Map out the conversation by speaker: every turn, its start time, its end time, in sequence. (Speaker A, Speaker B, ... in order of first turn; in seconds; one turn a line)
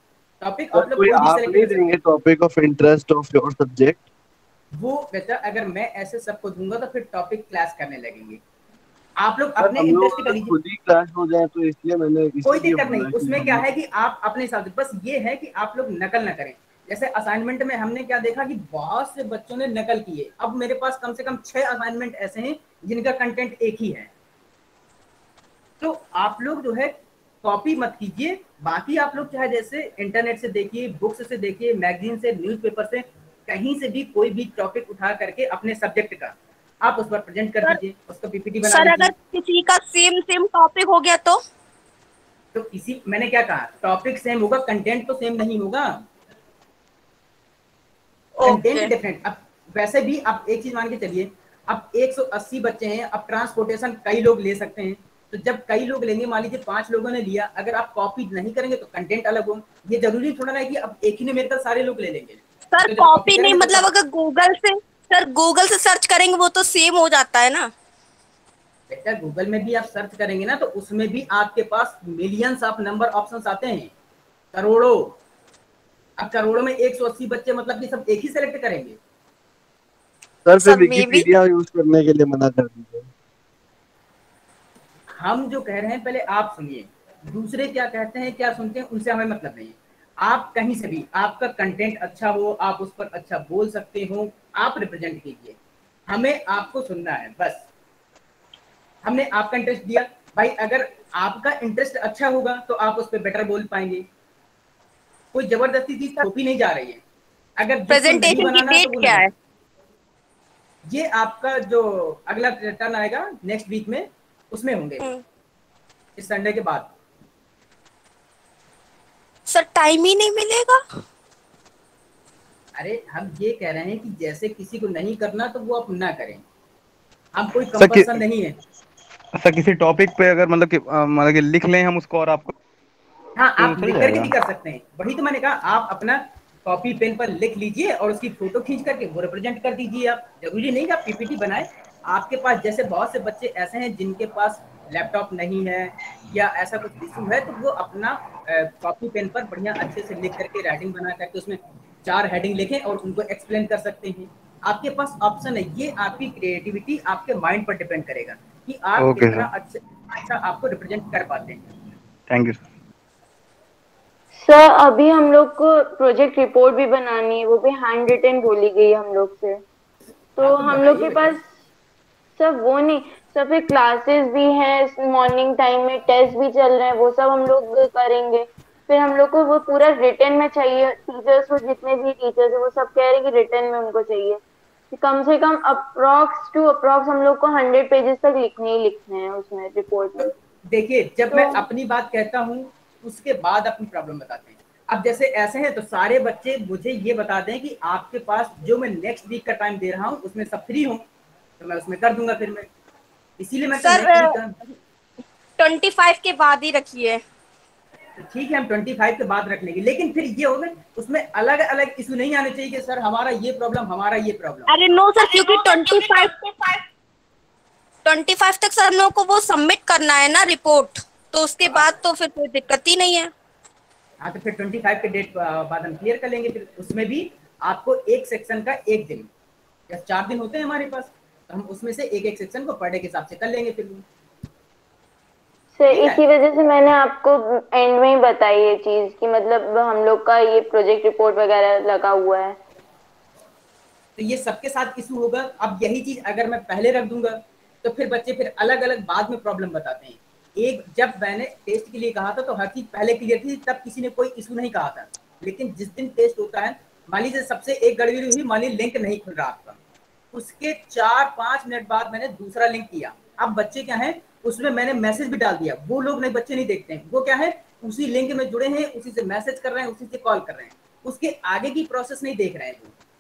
Speaker A: 0.4-2.0
Speaker B: 0.7-4.0
Speaker A: 4.7-8.4
Speaker A: 9.2-10.5
Speaker B: 9.6-13.7
Speaker A: 12.4-24.1
Speaker A: 25.8-39.1
Speaker C: 38.6-41.4
Speaker A: 42.5-46.0
Speaker A: 48.4-63.8
Speaker C: 48.4-48.9
Speaker C: 62.7-67.7
Speaker A: 68.9-73.9
Speaker A: 74.5-75.2
Speaker A: 76.2-79.0
Speaker B: 80.4-83.1
Speaker C: 80.6-81.3
Speaker A: 85.1-95.6
Speaker A: 96.1-97.6
Speaker A: 99.0-104.0
Speaker A: 105.3-107.0
Speaker A: 107.6-109.2
Speaker C: 107.9-109.3
Speaker A: 110.9-115.1
Speaker A: 116.2-116.9
Speaker C: 119.5-120.8
Speaker A: 122.8-126.4
Speaker A: 127.3-128.6
Speaker D: 127.8-128.2
Speaker D: 129.4-132.5
Speaker A: 133.3-161.7
Speaker D: 133.6-134.3
Speaker D: 159.0-159.5
Speaker D: 162.3-162.6
Speaker E: 164.4-169.6
Speaker E: 170.4-171.4
Speaker A: 170.4-171.4
Speaker E: 172.4-184.4
Speaker E: 184.9-190.3
Speaker A: 190.2-201.0
Speaker E: 191.3-191.6
Speaker A: 201.6-202.7
Speaker A: 203.4-204.5
Speaker C: 203.7-204.3
Speaker C: 205.6-207.2
Speaker A: 208.2-214.7
Speaker C: 214.7-216.8
Speaker C: 218.0-223.3
Speaker A: 221.7-221.9
Speaker A: 224.2-229.3
Speaker A: 229.9-234.0
Speaker E: 235.8-242.6
Speaker A: 235.9-236.2
Speaker A: 244.2-259.8
Speaker A: 260.3-272.9